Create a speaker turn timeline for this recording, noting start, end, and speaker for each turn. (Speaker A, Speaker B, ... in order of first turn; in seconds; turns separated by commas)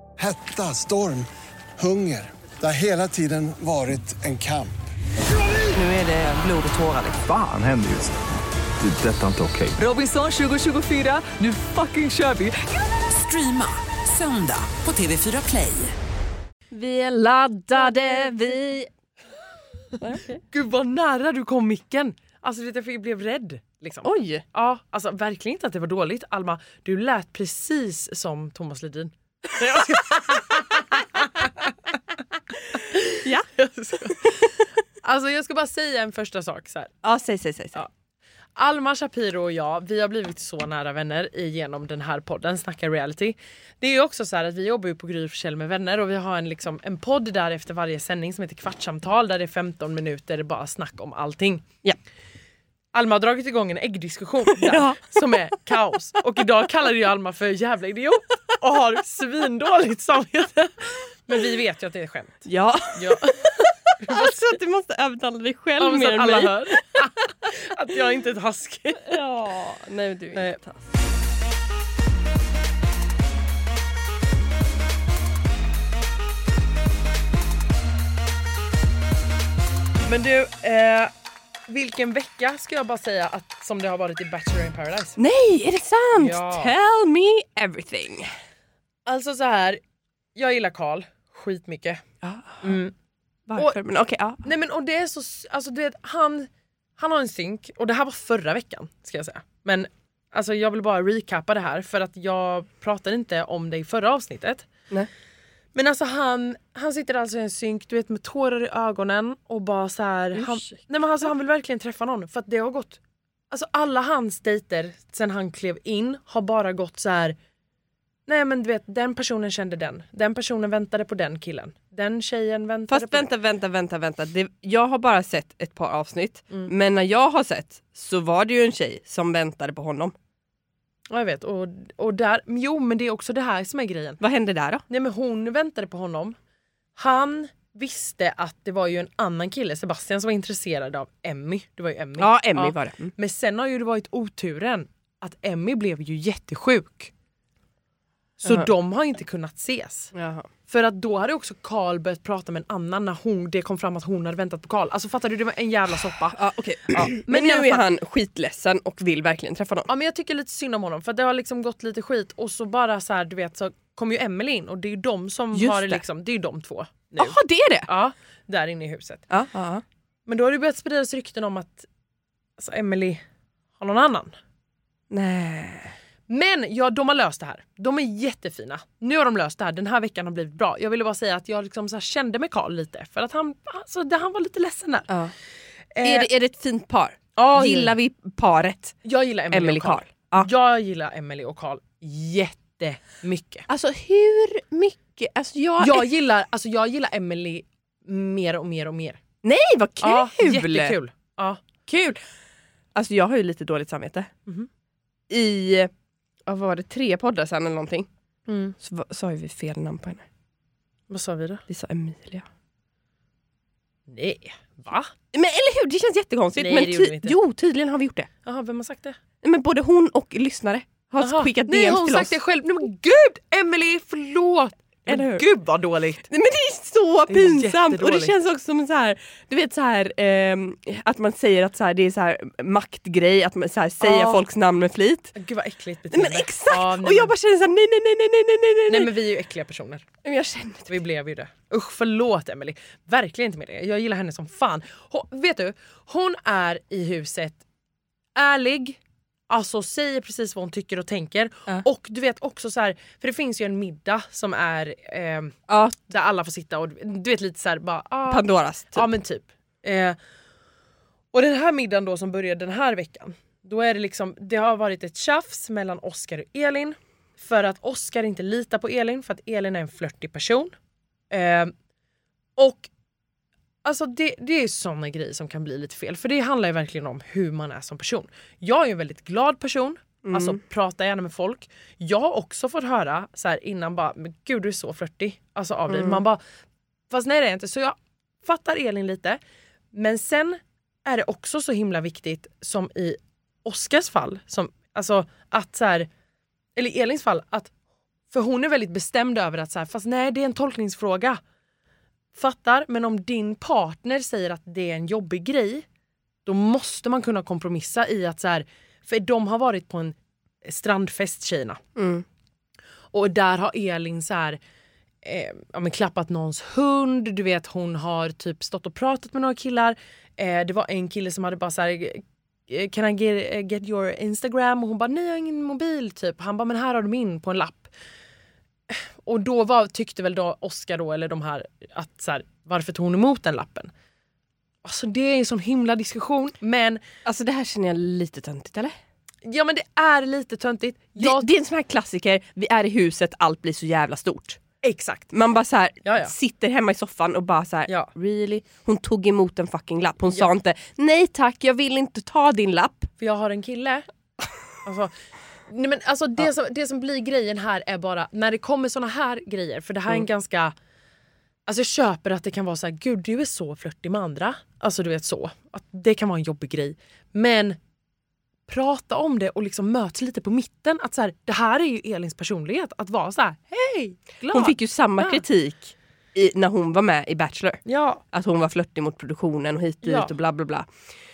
Speaker A: 0.2-4.9, Speaker B: 5.7-7.2, Speaker C: 7.2-8.1, Speaker C: 8.8-9.8, Speaker B: 9.8-15.9, Speaker D: 16.7-18.9, Speaker D: 20.0-20.4, Speaker E: 20.5-31.7, Speaker D: 24.0-24.4, Speaker E: 32.9-34.5, Speaker D: 33.1-33.5, Speaker D: 34.0-34.3, Speaker E: 35.0-36.9, Speaker D: 37.0-37.8, Speaker E: 38.5-51.6, Speaker E: 52.9-62.4, Speaker D: 54.6-55.2, Speaker D: 62.4-66.8, Speaker E: 62.9-64.5, Speaker E: 65.8-69.2, Speaker D: 69.0-70.8, Speaker E: 80.1-81.1, Speaker E: 81.7-85.2, Speaker D: 85.2-88.3, Speaker E: 86.2-86.7, Speaker E: 89.0-89.8, Speaker E: 90.3-92.0, Speaker D: 92.2-92.7, Speaker E: 92.6-92.9, Speaker D: 93.5-94.4, Speaker E: 94.4-104.7, Speaker E: 105.7-113.0, Speaker D: 110.3-110.8, Speaker E: 113.5-117.3, Speaker E: 118.3-123.3, Speaker D: 122.9-130.1, Speaker E: 131.1-134.2, Speaker D: 134.2-134.8, Speaker E: 134.9-136.3, Speaker E: 136.9-147.1, Speaker D: 142.2-143.1, Speaker E: 148.4-150.1, Speaker D: 148.4-148.7, Speaker D: 150.1-150.5, Speaker E: 150.7-156.4, Speaker D: 156.3-159.9, Speaker E: 156.9-157.8, Speaker E: 159.9-167.3, Speaker D: 165.5-166.0, Speaker D: 167.2-167.9, Speaker E: 167.9-169.2, Speaker D: 169.3-169.8, Speaker E: 170.3-171.9, Speaker E: 172.6-173.2, Speaker E: 173.8-174.3, Speaker D: 175.1-175.9, Speaker E: 176.3-185.1, Speaker E: 185.9-186.3, Speaker D: 186.0-189.0, Speaker E: 187.3-187.9, Speaker E: 189.0-193.6, Speaker D: 189.5-190.5, Speaker D: 193.7-196.1, Speaker E: 195.8-199.2, Speaker D: 199.4-200.9, Speaker E: 200.0-201.7, Speaker D: 201.9-202.2, Speaker D: 202.9-204.3, Speaker D: 205.3-205.9, Speaker D: 206.5-208.1, Speaker E: 208.5-208.7, Speaker D: 208.8-210.2, Speaker E: 211.1-211.6, Speaker D: 211.7-212.4, Speaker E: 214.1-215.1, Speaker D: 215.3-218.3, Speaker E: 216.6-217.3, Speaker E: 218.4-219.2, Speaker D: 219.4-222.3, Speaker E: 221.2-226.3, Speaker D: 225.1-225.4, Speaker D: 226.3-235.3, Speaker E: 227.3-228.3, Speaker E: 234.0-234.4, Speaker E: 235.3-237.3, Speaker D: 236.1-239.1, Speaker E: 238.9-240.0, Speaker D: 240.2-240.9, Speaker E: 240.9-247.6, Speaker E: 248.3-249.0, Speaker E: 249.5-260.2, Speaker D: 255.7-256.0, Speaker D: 258.3-259.1, Speaker E: 261.3-270.7, Speaker E: 271.3-271.7, Speaker E: 272.6-272.9, Speaker E: 273.8-286.4, Speaker D: 280.2-280.6, Speaker D: 285.9-286.2, Speaker E: 287.1-289.4, Speaker E: 289.9-296.1, Speaker E: 296.8-297.7, Speaker E: 298.3-301.4, Speaker E: 302.3-305.8, Speaker E: 306.4-311.8, Speaker D: 311.9-312.2, Speaker E: 313.1-314.6, Speaker E: 315.2-327.9, Speaker E: 328.9-333.9, Speaker E: 334.8-337.0, Speaker D: 337.2-338.9, Speaker E: 339.4-341.4, Speaker D: 341.2-344.6, Speaker E: 344.8-345.3, Speaker D: 345.3-353.1, Speaker E: 346.0-346.3, Speaker E: 353.2-354.0, Speaker E: 354.8-355.1, Speaker E: 355.7-360.7, Speaker E: 361.6-367.8, Speaker E: 368.7-375.4, Speaker D: 374.5-380.9, Speaker E: 377.9-378.2, Speaker E: 380.0-380.3